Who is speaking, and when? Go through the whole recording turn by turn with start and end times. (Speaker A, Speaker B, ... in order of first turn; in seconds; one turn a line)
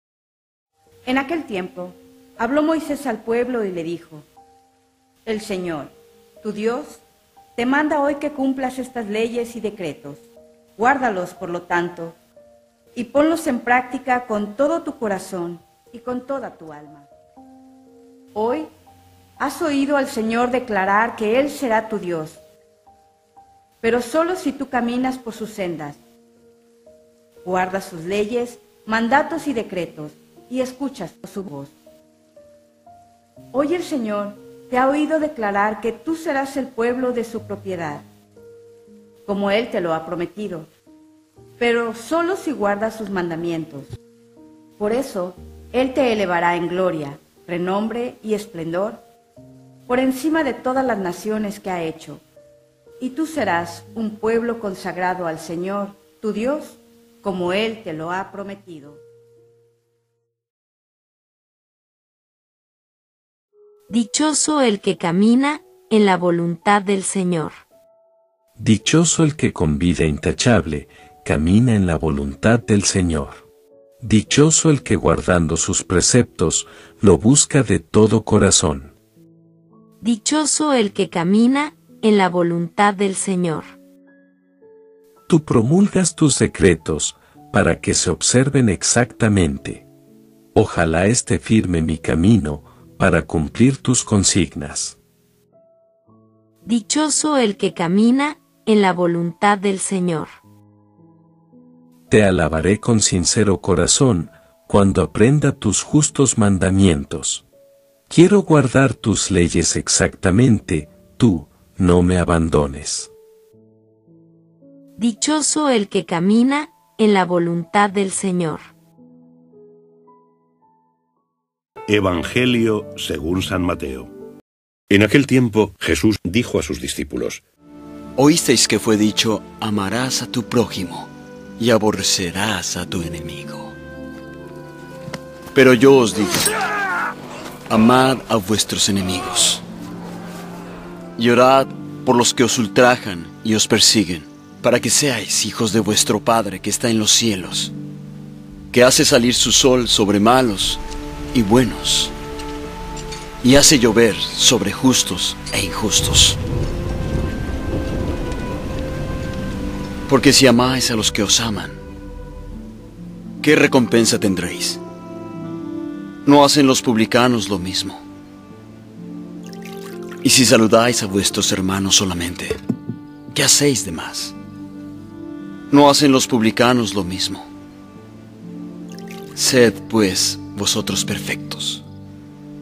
Speaker A: 1.1-4.2
Speaker A: 5.3-7.0
Speaker A: 7.6-10.2
Speaker A: 10.8-12.2
Speaker A: 12.9-17.1
Speaker A: 18.4-18.7
Speaker A: 19.4-22.4
Speaker A: 23.8-26.0
Speaker A: 27.4-31.8
Speaker A: 33.5-38.0
Speaker A: 39.3-40.7
Speaker A: 41.6-43.9
Speaker A: 44.8-49.0
Speaker A: 49.9-52.2
Speaker A: 53.0-59.0
Speaker B: 63.9-67.6
Speaker C: 68.6-73.5
Speaker C: 74.0-79.0
Speaker B: 80.0-83.7
Speaker C: 85.3-89.8
Speaker C: 90.5-95.0
Speaker B: 96.7-100.3
Speaker C: 102.1-107.5
Speaker C: 108.1-113.1
Speaker B: 115.0-118.6
Speaker D: 121.9-124.1
Speaker D: 124.9-127.4
Speaker E: 128.2-133.7
Speaker E: 135.5-136.4
Speaker E: 137.7-139.6
Speaker E: 141.2-147.7
Speaker E: 148.7-150.8
Speaker E: 151.3-152.1
Speaker E: 153.4-156.4
Speaker E: 160.1-161.8
Speaker E: 163.4-164.8
Speaker E: 166.2-168.0
Speaker E: 170.2-172.6
Speaker E: 173.3-174.3
Speaker E: 175.7-177.5
Speaker E: 179.3-181.8